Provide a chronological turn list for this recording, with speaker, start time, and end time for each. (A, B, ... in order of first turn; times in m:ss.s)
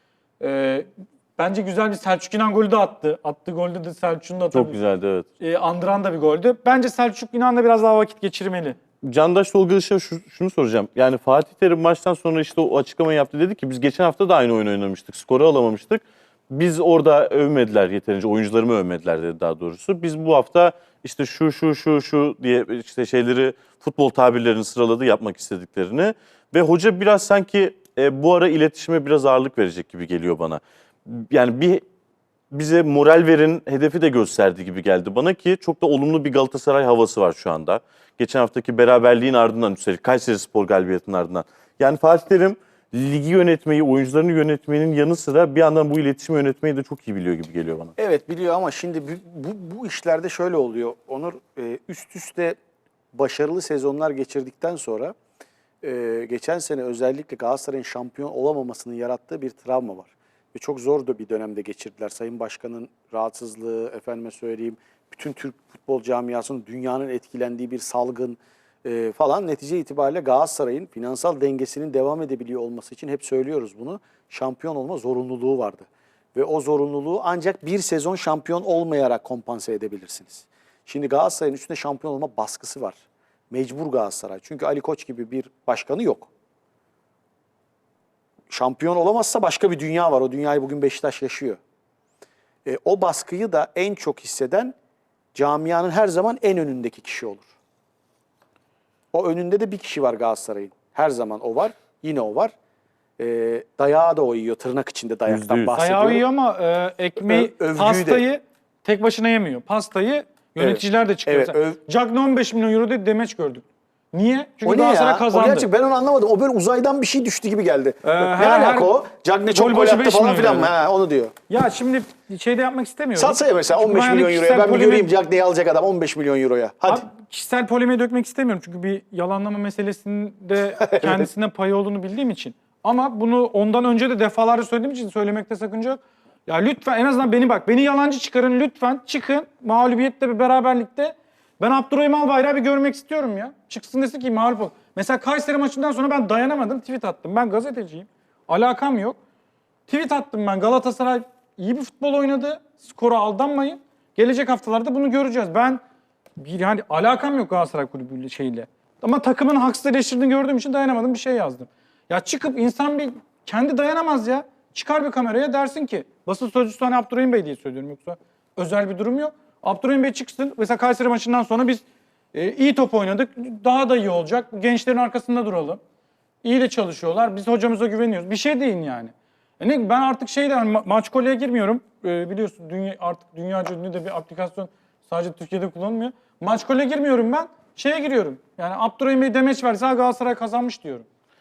0:00.4-0:04.8 A
0:04.5-0:05.3 B
0:05.4-0:08.8 A
0:09.0-0:31.8 B
0:32.5-0:47.9 B
0:48.0-0:52.6 C
0:53.1-0:55.2 C
0:55.8-1:23.0 C
1:23.5-1:26.3 C
1:28.5-1:31.6 C
1:32.6-1:34.8 C
1:35.3-1:37.5 C
1:39.1-1:42.5 C
1:43.2-1:46.2 C
1:45.3-1:45.8 B
1:45.7-1:55.7 A
1:47.2-1:48.2 C
1:50.6-1:51.8 C
1:54.6-2:01.3 C
1:58.0-1:58.9 A
1:59.5-2:00.7 A
2:01.5-2:05.1 A
2:03.2-2:07.1 C
2:06.9-2:29.2 A
2:10.8-2:11.2 C
2:29.9-2:35.8 A
2:36.4-2:51.8 A
2:52.3-2:55.8 A
2:56.4-3:11.1 A